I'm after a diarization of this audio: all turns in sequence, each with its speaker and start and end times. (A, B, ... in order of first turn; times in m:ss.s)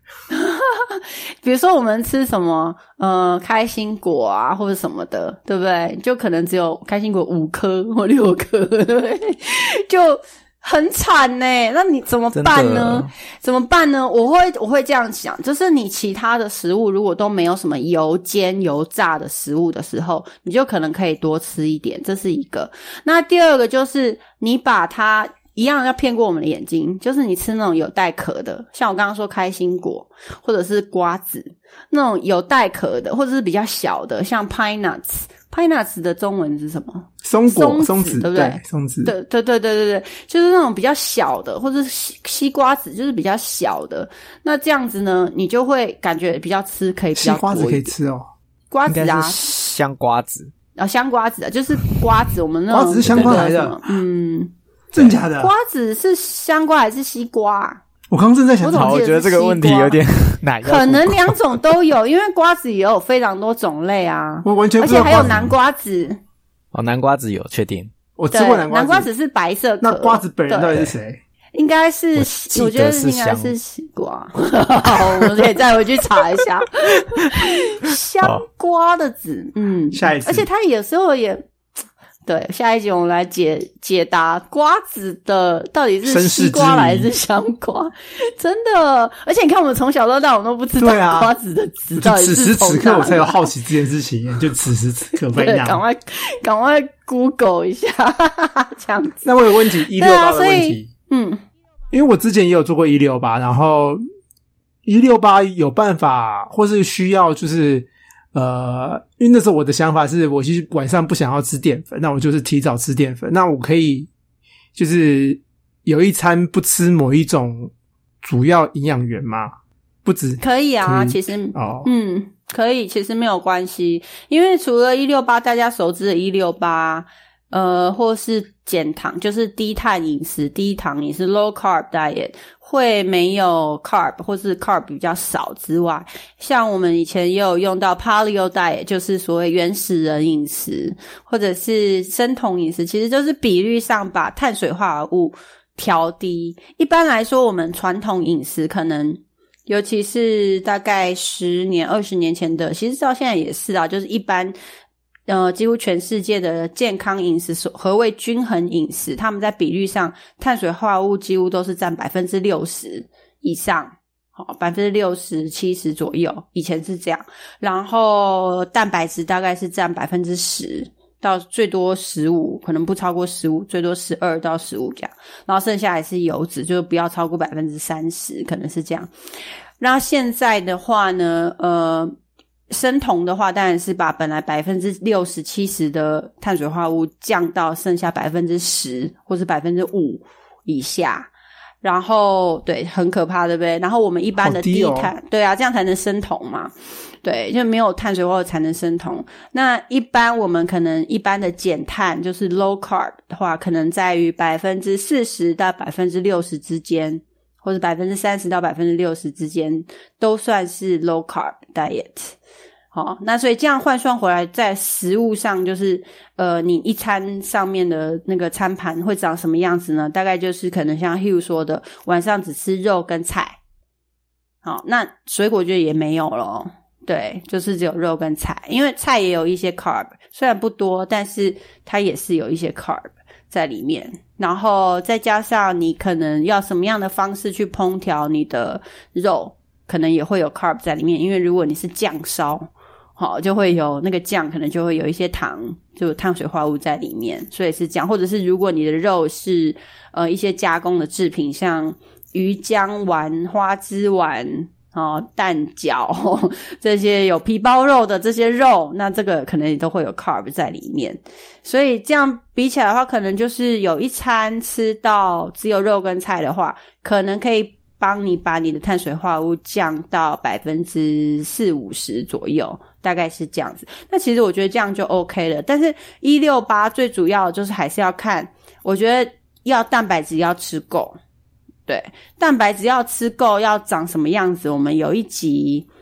0:00.3-0:47.9 A
0:12.3-0:13.1 B
0:37.2-0:39.1 C
0:47.2-0:48.3 C
0:48.7-0:49.4 A
0:48.9-0:50.5 B
0:50.8-0:54.5 A
0:52.7-0:53.8 C
0:53.1-0:53.5 B
0:54.9-0:55.5 C
0:55.3-0:57.8 A
0:58.1-0:58.9 C
0:58.6-1:00.0 A
0:58.7-1:01.6 B
1:00.6-1:06.2 A
1:04.4-1:05.5 C
1:06.7-1:07.9 B
1:08.2-1:09.1 C
1:08.3-1:10.9 A
1:09.8-1:11.2 C
1:11.5-1:21.4 A
1:12.2-1:13.6 B
1:14.8-1:15.4 B
1:17.2-1:18.4 B
1:19.9-1:20.5 C
1:22.3-1:33.5 A
1:26.0-1:27.1 C
1:30.8-1:31.3 C
1:32.0-1:35.8 C
1:35.3-1:41.4 A
1:39.2-1:40.9 C
1:41.9-1:44.0 C
1:44.9-1:54.1 C
1:54.8-2:01.9 C
2:00.4-2:34.6 A
2:35.3-2:59.1 A
2:59.8-3:02.2 A
3:02.7-3:11.3 A
3:11.8-3:32.4 A
3:14.4-3:15.1 C
3:32.9-3:43.6 A
3:44.6-4:41.2 A
4:41.9-4:45.9 A